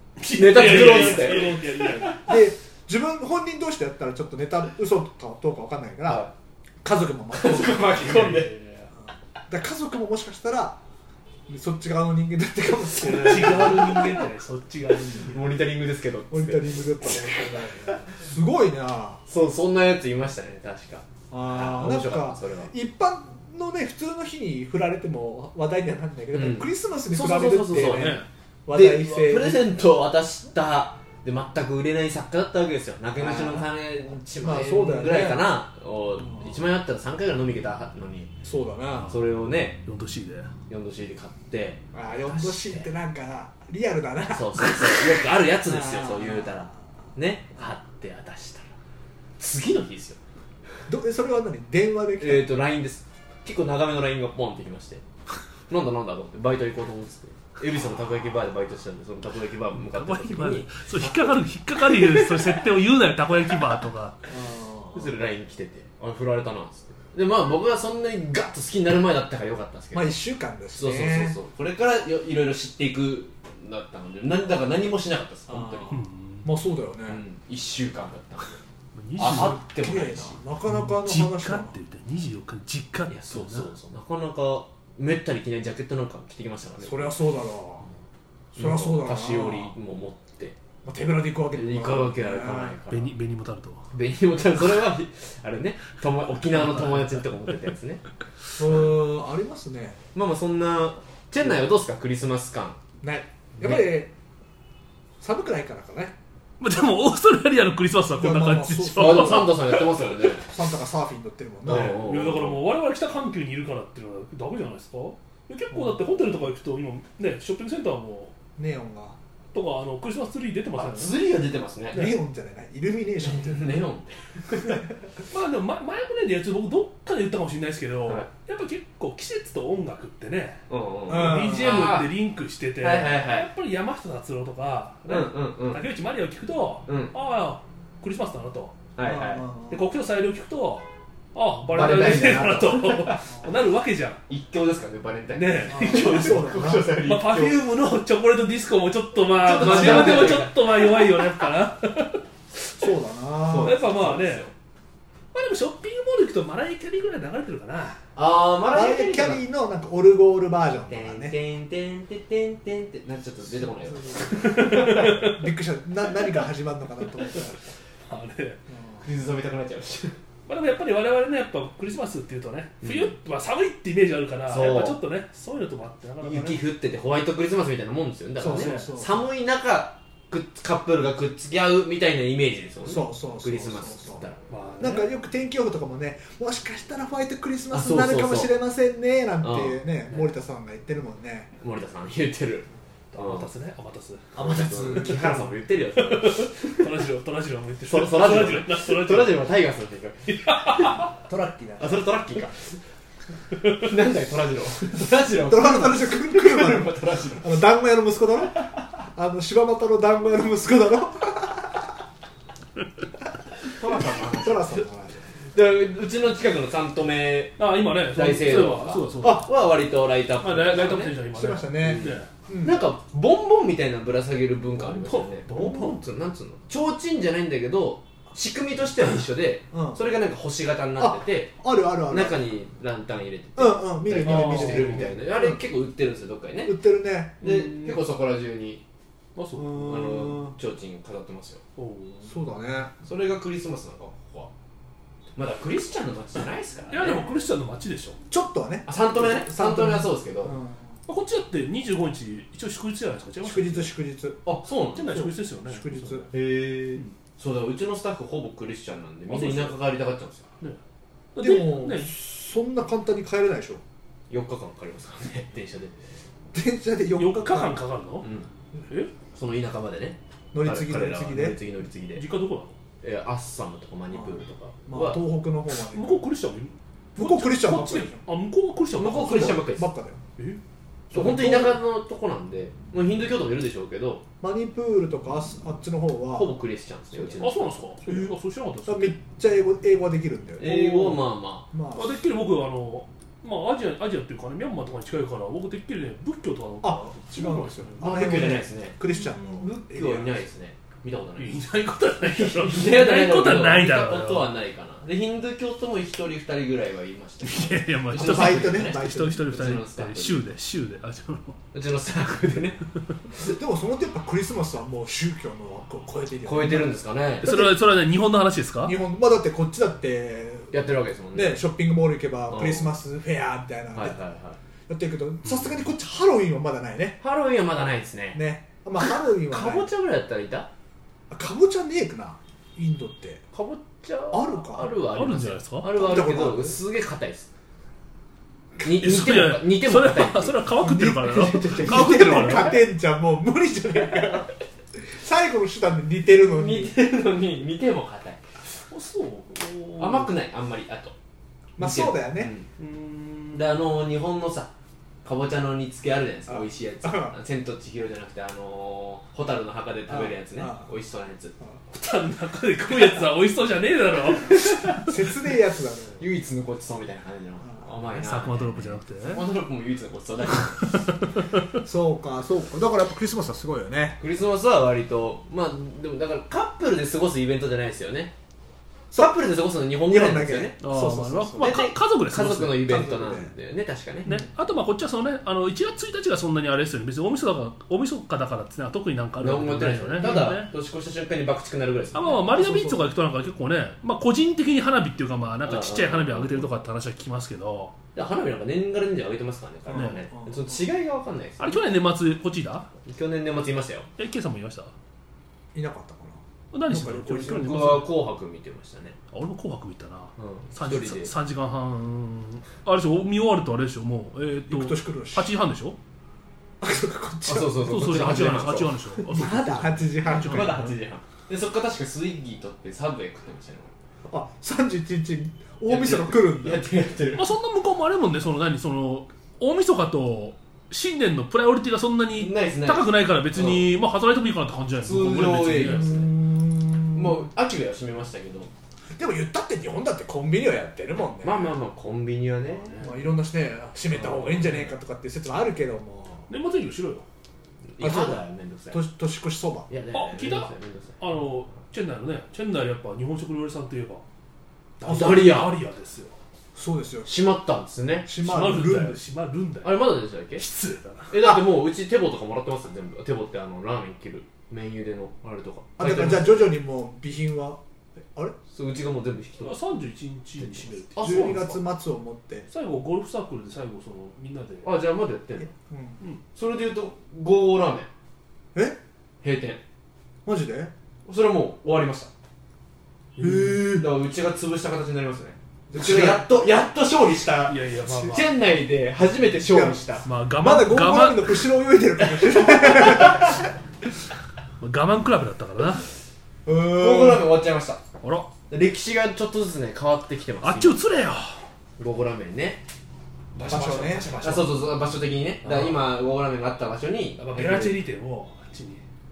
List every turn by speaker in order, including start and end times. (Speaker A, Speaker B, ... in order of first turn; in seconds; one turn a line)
Speaker A: 0.2-2.3
Speaker B: 0.3-1.6
Speaker C: 0.8-1.5
Speaker C: 2.1-6.2
Speaker B: 6.0-6.3
Speaker C: 6.8-8.2
Speaker B: 7.3-8.5
Speaker A: 7.9-8.9
Speaker C: 9.5-10.8
Speaker C: 11.5-14.1
Speaker A: 13.1-15.6
Speaker B: 13.1-13.7
Speaker B: 15.2-17.4
Speaker C: 16.3-19.2
Speaker B: 19.3-22.7
Speaker C: 21.3-29.6
Speaker B: 26.3-38.3
Speaker A: 27.7-28.2
Speaker C: 33.2-33.7
Speaker C: 34.4-35.4
Speaker C: 38.4-39.2
Speaker B: 39.1-39.8
Speaker A: 39.8-40.5
Speaker B: 40.7-42.9
Speaker C: 41.9-46.7
Speaker B: 44.3-48.7
Speaker B: 49.4-50.2
Speaker C: 50.9-52.5
Speaker B: 52.2-55.0
Speaker B: 55.7-60.7
Speaker A: 59.8-64.2
Speaker C: 61.0-61.3
Speaker C: 64.3-65.1
Speaker B: 64.9-70.2
Speaker C: 69.9-71.3
Speaker B: 70.8-76.0
Speaker C: 75.5-77.2
Speaker A: 75.9-76.5
Speaker B: 77.1-78.6
Speaker A: 78.9-79.6
Speaker B: 79.2-80.4
Speaker C: 79.2-81.8
Speaker A: 80.6-83.7
Speaker B: 83.1-87.2
Speaker C: 86.8-87.9
Speaker C: 88.5-89.7
Speaker B: 88.5-90.6
Speaker C: 90.8-92.8
Speaker B: 91.5-93.1
Speaker A: 92.9-93.8
Speaker B: 93.9-98.0
Speaker A: 96.5-97.3
Speaker C: 98.5-100.0
Speaker B: 100.1-102.8
Speaker C: 103.0-104.1
Speaker B: 103.6-103.9
Speaker C: 105.2-106.1
Speaker A: 106.6-110.0
Speaker C: 108.2-109.6
Speaker B: 109.0-110.5
Speaker C: 110.4-112.0
Speaker B: 111.7-112.6
Speaker A: 111.7-118.3
Speaker C: 115.7-116.0
Speaker C: 118.6-119.2
Speaker A: 119.5-121.2
Speaker B: 120.7-122.1
Speaker C: 121.9-123.8
Speaker A: 121.9-122.2
Speaker B: 123.2-124.8
Speaker A: 125.3-138.8
Speaker B: 130.7-132.1
Speaker C: 131.1-131.8
Speaker B: 132.8-133.5
Speaker B: 135.1-135.8
Speaker B: 136.9-137.1
Speaker B: 138.9-139.5
Speaker C: 139.0-139.8
Speaker A: 139.7-144.2
Speaker B: 141.7-143.2
Speaker B: 144.3-147.6
Speaker A: 145.3-152.2
Speaker C: 145.7-147.0
Speaker B: 149.4-150.7
Speaker C: 149.6-150.4
Speaker C: 152.8-153.8
Speaker B: 153.5-154.5
Speaker A: 153.6-154.5
Speaker A: 155.3-158.0
Speaker B: 158.2-159.4
Speaker C: 158.7-161.3
Speaker B: 160.9-164.8
Speaker C: 163.9-167.6
Speaker A: 164.4-165.4
Speaker A: 168.1-168.6
Speaker C: 168.7-169.0
Speaker B: 169.0-170.2
Speaker A: 170.5-176.6
Speaker B: 172.8-173.1
Speaker B: 174.5-175.0
Speaker B: 176.2-184.4
Speaker C: 178.4-179.2
Speaker A: 178.4-178.9
Speaker C: 182.8-184.2
Speaker A: 184.5-185.1
Speaker C: 184.8-191.5
Speaker B: 187.7-188.5
Speaker B: 189.4-189.8
Speaker B: 191.6-193.5
Speaker A: 193.1-194.3
Speaker C: 194.3-195.3
Speaker B: 194.3-196.8
Speaker A: 194.9-199.4
Speaker B: 197.9-201.1
Speaker A: 200.3-201.1
Speaker C: 201.3-202.0
Speaker B: 201.8-202.8
Speaker B: 203.7-207.6
Speaker C: 205.4-211.9
Speaker B: 213.8-214.7
Speaker C: 213.9-215.2
Speaker B: 215.5-221.2
Speaker A: 217.6-219.5
Speaker A: 220.4-222.3
Speaker C: 221.3-222.8
Speaker B: 221.8-231.5
Speaker A: 224.8-226.0
Speaker C: 229.7-230.0
Speaker C: 231.0-232.4
Speaker B: 232.1-236.7
Speaker C: 233.6-235.6
Speaker A: 234.2-235.1
Speaker C: 236.6-237.4
Speaker A: 237.4-238.0
Speaker B: 237.4-238.8
Speaker A: 239.3-239.8
Speaker C: 239.6-240.5
Speaker B: 239.7-241.6
Speaker A: 241.8-242.3
Speaker C: 242.2-242.9
Speaker B: 243.0-244.5
Speaker B: 245.3-247.2
Speaker A: 246.9-248.2
Speaker C: 248.3-250.9
Speaker B: 248.8-250.6
Speaker A: 251.1-253.9
Speaker C: 253.4-254.4
Speaker B: 254.4-255.3
Speaker A: 254.9-256.3
Speaker C: 255.6-256.2
Speaker B: 256.3-260.5
Speaker A: 259.3-259.8
Speaker A: 261.3-262.1
Speaker C: 261.4-263.8
Speaker B: 264.3-265.9
Speaker C: 266.5-267.8
Speaker A: 267.1-268.3
Speaker B: 268.2-268.5
Speaker A: 268.9-269.1
Speaker B: 269.3-272.2
Speaker C: 270.5-271.6
Speaker A: 272.1-272.8
Speaker B: 273.0-275.2
Speaker C: 274.1-276.2
Speaker A: 275.9-279.6
Speaker C: 277.1-278.2
Speaker B: 278.9-279.9
Speaker C: 279.1-280.2
Speaker C: 281.1-281.8
Speaker B: 281.1-284.2
Speaker C: 284.4-286.5
Speaker B: 286.3-287.8
Speaker A: 287.4-289.2
Speaker C: 288.1-288.3
Speaker C: 288.8-291.2
Speaker B: 290.6-291.7
Speaker C: 291.7-292.2
Speaker A: 291.9-298.1
Speaker C: 296.8-300.4
Speaker B: 298.0-301.6
Speaker A: 301.4-304.5
Speaker B: 302.2-310.5
Speaker A: 307.4-311.6
Speaker C: 308.1-309.5
Speaker B: 311.7-312.8
Speaker C: 313.5-317.8
Speaker B: 316.4-317.5
Speaker A: 317.4-318.9
Speaker C: 318.8-320.7
Speaker B: 320.7-321.6
Speaker C: 321.3-324.2
Speaker B: 322.5-322.9
Speaker B: 323.9-324.6
Speaker C: 324.9-327.2
Speaker B: 327.2-328.4
Speaker C: 328.3-329.9
Speaker B: 329.0-330.7
Speaker C: 331.3-333.4
Speaker B: 333.5-337.5
Speaker C: 334.3-334.9
Speaker A: 335.1-335.9
Speaker C: 335.9-336.8
Speaker B: 338.8-340.6
Speaker A: 338.8-342.8
Speaker C: 340.8-346.9
Speaker B: 341.5-342.7
Speaker B: 346.5-348.4
Speaker A: 348.9-350.3
Speaker B: 350.0-351.1
Speaker C: 351.8-352.5
Speaker B: 351.8-352.7
Speaker A: 352.8-353.8
Speaker B: 353.5-354.7
Speaker B: 355.2-361.5
Speaker C: 356.5-357.3
Speaker C: 360.1-360.9
Speaker A: 361.9-365.1
Speaker C: 364.9-366.2
Speaker B: 366.2-371.0
Speaker A: 368.1-369.4
Speaker C: 371.8-374.2
Speaker B: 374.2-378.3
Speaker B: 379.1-380.8
Speaker C: 380.0-381.8
Speaker A: 380.8-382.9
Speaker B: 381.6-384.3
Speaker C: 382.8-383.5
Speaker A: 384.2-390.7
Speaker B: 389.4-392.5
Speaker C: 390.2-390.5
Speaker A: 392.1-397.9
Speaker C: 392.5-393.1
Speaker B: 395.6-396.7
Speaker B: 398.1-401.8
Speaker A: 399.9-400.2
Speaker C: 399.9-400.8
Speaker A: 401.6-402.9
Speaker B: 403.1-404.1
Speaker A: 404.2-404.9
Speaker C: 405.7-407.7
Speaker A: 406.7-408.1
Speaker B: 407.3-409.2
Speaker A: 409.3-416.0
Speaker B: 410.4-411.3
Speaker C: 414.7-415.5
Speaker C: 416.8-417.9
Speaker B: 417.5-419.2
Speaker A: 417.7-420.9
Speaker C: 419.3-420.8
Speaker B: 420.2-423.9
Speaker C: 424.2-426.9
Speaker B: 425.9-427.5
Speaker A: 427.4-436.1
Speaker B: 432.3-433.9
Speaker B: 435.0-436.3
Speaker C: 435.8-437.4
Speaker B: 437.1-438.7
Speaker C: 439.1-441.7
Speaker B: 441.4-443.1
Speaker C: 442.9-446.5
Speaker B: 444.1-444.9
Speaker A: 446.5-447.2
Speaker B: 447.9-449.0
Speaker C: 448.0-449.9
Speaker B: 449.9-451.2
Speaker A: 450.1-454.2
Speaker A: 455.0-456.4
Speaker B: 455.0-455.8
Speaker C: 456.7-457.3
Speaker B: 457.2-458.3
Speaker C: 458.2-459.2
Speaker A: 458.3-461.3
Speaker B: 459.8-460.6
Speaker B: 461.3-466.7
Speaker C: 461.4-461.7
Speaker C: 466.0-468.6
Speaker B: 468.7-469.8
Speaker A: 469.6-471.8
Speaker B: 471.1-471.6
Speaker C: 471.2-472.7
Speaker A: 472.7-474.9
Speaker B: 474.8-475.7
Speaker C: 475.7-476.2
Speaker B: 476.5-478.1
Speaker B: 479.4-479.8
Speaker C: 480.4-480.9
Speaker B: 481.2-482.3
Speaker A: 483.4-483.8
Speaker C: 483.4-484.1
Speaker B: 483.9-490.2
Speaker C: 485.9-486.5
Speaker A: 487.7-488.5
Speaker C: 489.6-493.6
Speaker A: 490.2-491.6
Speaker B: 492.7-493.3
Speaker A: 494.8-496.0
Speaker C: 496.6-497.5
Speaker B: 496.9-498.0
Speaker A: 498.2-498.5
Speaker B: 498.7-501.0
Speaker A: 500.6-501.6
Speaker B: 502.0-502.8
Speaker A: 503.5-504.8
Speaker C: 503.6-504.7
Speaker B: 504.4-508.0
Speaker A: 505.6-506.1
Speaker A: 507.4-509.0